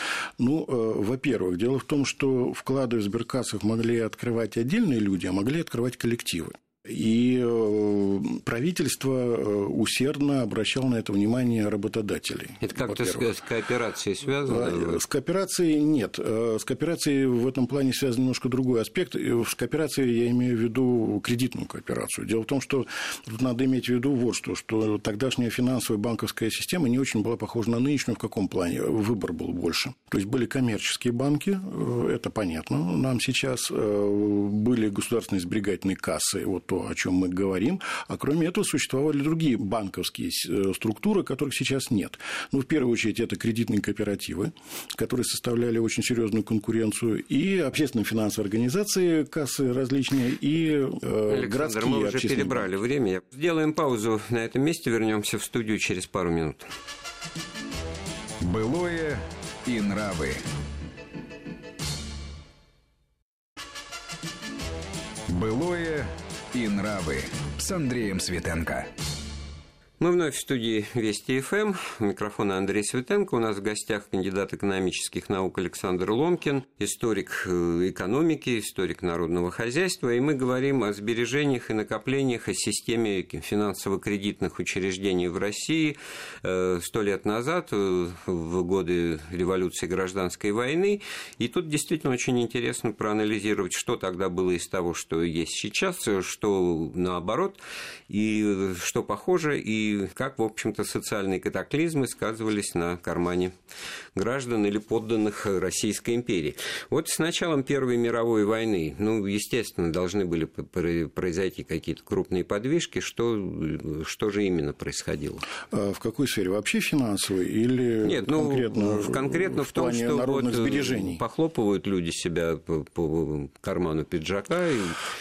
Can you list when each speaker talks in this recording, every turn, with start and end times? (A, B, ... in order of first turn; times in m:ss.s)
0:00.4-0:13.3 A
0:12.6-0:15.0 B
0:14.4-0:52.7 A
0:51.3-0:56.7 B
0:58.4-1:00.4 C
1:05.3-1:08.9 C
1:10.0-1:43.5 B
1:44.1-1:55.5 B
1:55.7-2:01.2 A
1:58.0-2:05.0 B